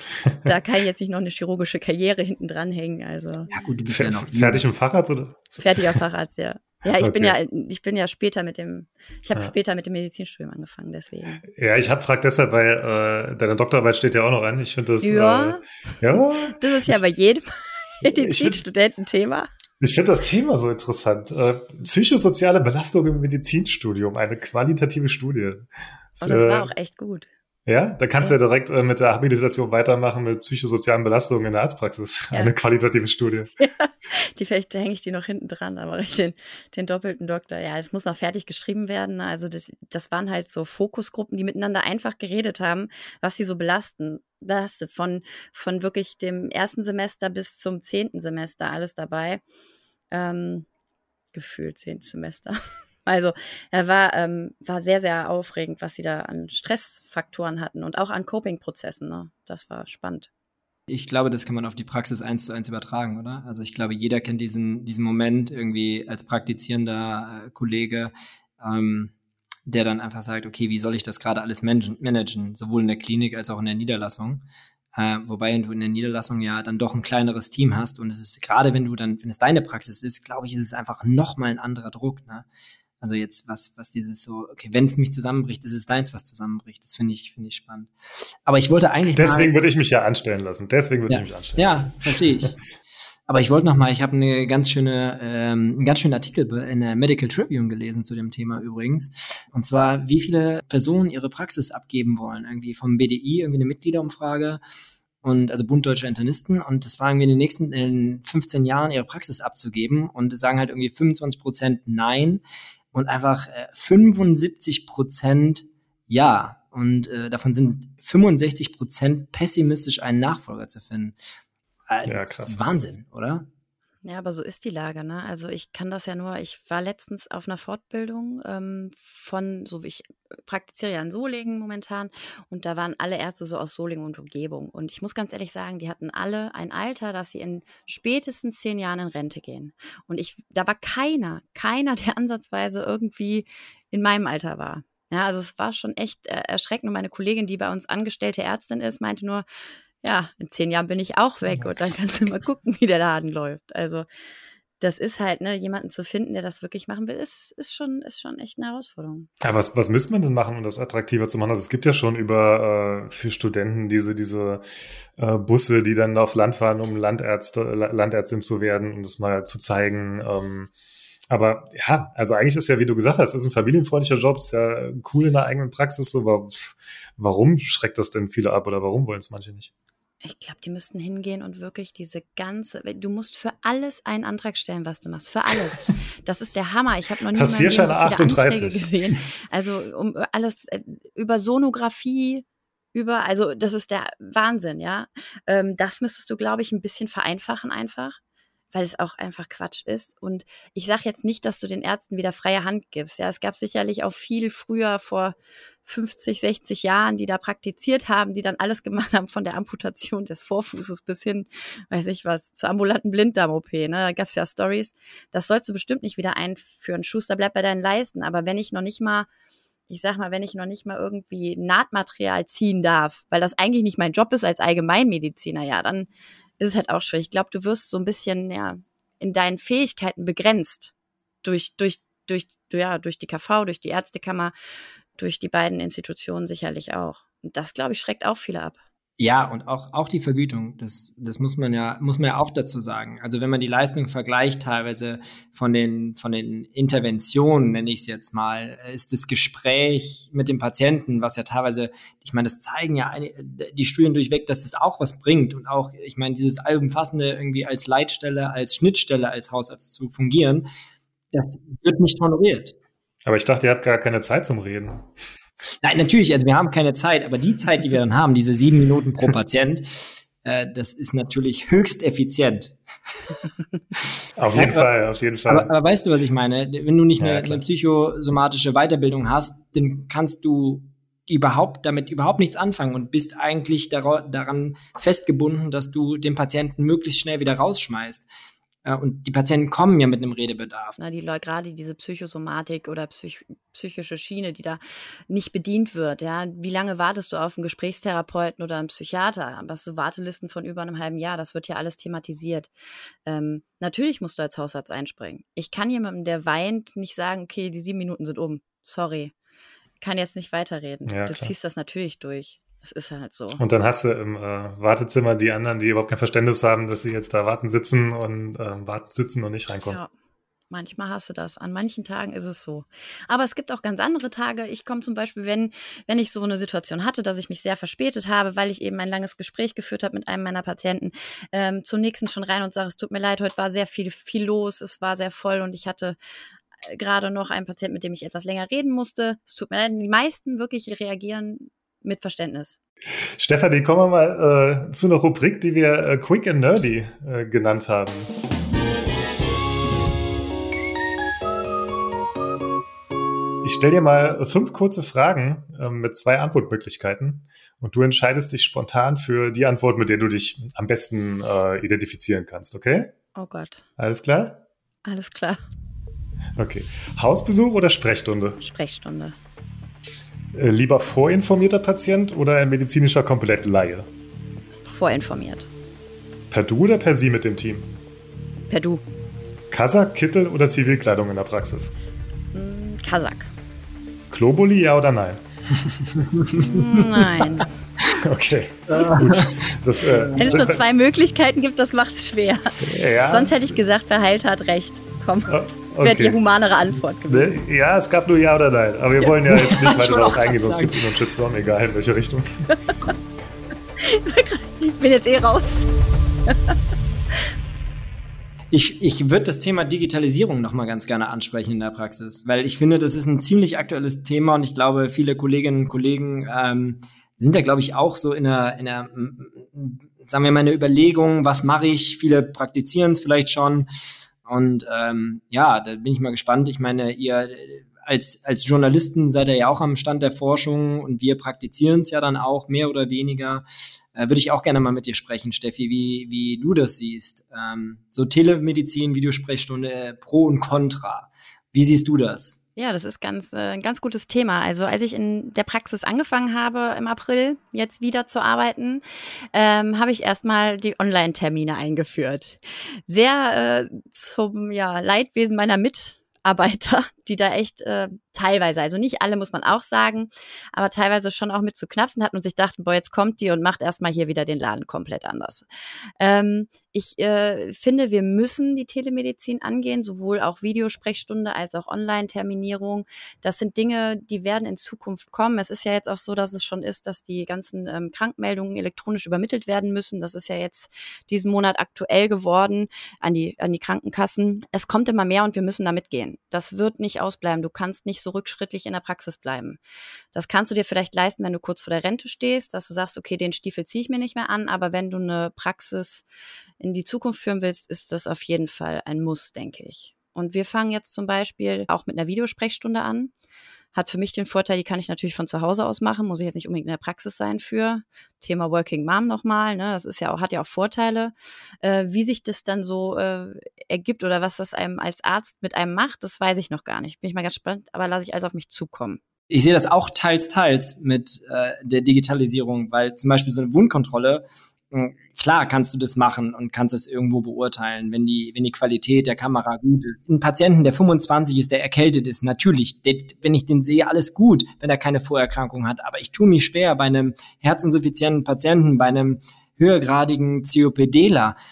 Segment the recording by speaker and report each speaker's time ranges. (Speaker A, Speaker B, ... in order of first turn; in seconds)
Speaker A: 0.4-3.5, 5.6-11.4, 15.0-19.5, 26.2-27.3, 33.6-49.4, 50.1-50.6, 51.3-60.3, 124.0-149.4, 150.0-154.1, 154.8-159.3, 180.2-198.2, 198.7-219.3, 219.9-234.5, 235.2-238.8, 291.0-302.7, 303.2-309.3, 310.0-313.6, 320.7-336.1, 336.9-342.8, 363.3-363.8, 365.1-365.6, 368.6-369.4, 374.9-375.7, 378.7-379.0, 382.5-383.5, 386.6-387.7, 390.4-397.6, 404.0-405.9, 442.8-465.6, 466.2-489.8, 490.3-496.2, 496.8-503.3, 503.9-519.2
Speaker B: 3.5-4.6, 60.9-69.1, 69.7-82.5, 83.0-87.9, 88.4-89.5, 91.1-92.6, 93.3-104.6, 105.2-112.4, 112.9-121.2, 121.9-123.5, 239.2-260.7, 261.3-262.7, 265.8-272.8, 274.5-274.9, 275.5-288.2, 288.8-290.9, 386.4-387.3, 388.9-389.6, 390.1-390.5, 399.5-401.1, 408.7-423.9, 424.4-442.6, 519.5-541.6
Speaker C: 3.9-6.0, 7.0-7.3, 11.5-17.0, 18.0-18.6, 19.8-26.7, 27.7-33.5, 89.1-92.5, 122.0-123.0, 159.4-164.6, 165.2-170.7, 171.3-179.7, 187.3-189.1, 263.2-265.1, 274.4-275.7, 277.2-277.6, 311.1-311.5, 313.6-320.0, 343.4-348.3, 353.6-363.1, 364.0-364.6, 366.6-368.6, 370.5-374.1, 376.5-377.9, 379.7-381.9, 384.3-385.4, 388.1-390.8, 392.8-393.6, 395.5-396.4, 397.3-402.7